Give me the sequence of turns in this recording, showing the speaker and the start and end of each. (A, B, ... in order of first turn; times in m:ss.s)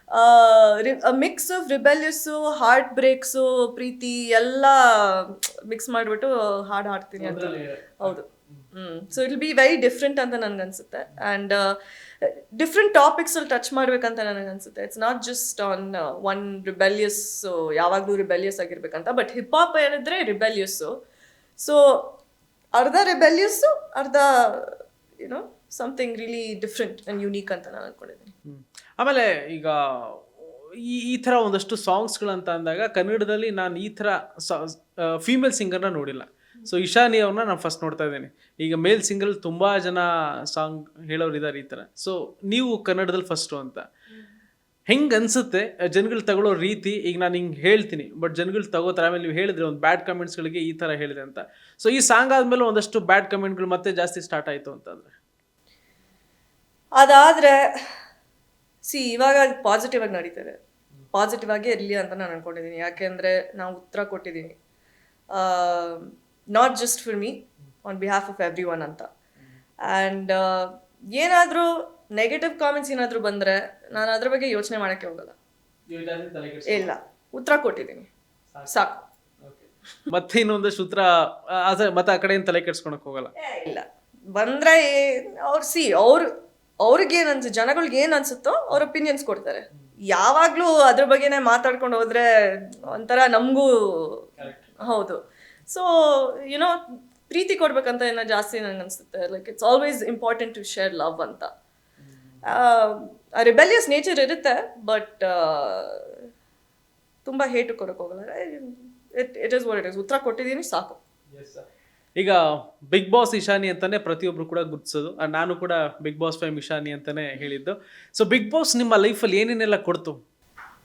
0:00.1-0:21.0 A
0:07.2-0:08.6 B
0:21.6-0:22.2 A
0:22.7-0:28.3 A
0:28.4-0:43.8 B
0:44.9-0:55.1 B
0:57.0-0:57.6 A
0:58.8-1:00.6 A
1:01.1-1:04.5 A
1:05.3-1:09.1 A
1:09.9-1:15.3 A
1:15.9-1:16.9 B
1:16.6-1:18.1 A
1:18.7-1:19.0 A
1:19.4-1:23.3 B
1:23.4-1:26.3 A
1:26.8-1:34.3 A
1:34.4-1:34.8 B
1:34.8-1:41.5 A
1:42.0-1:42.6 B
1:42.4-1:46.2 A
1:47.2-1:51.0 A
1:51.3-1:51.6 B
1:52.9-2:00.2 B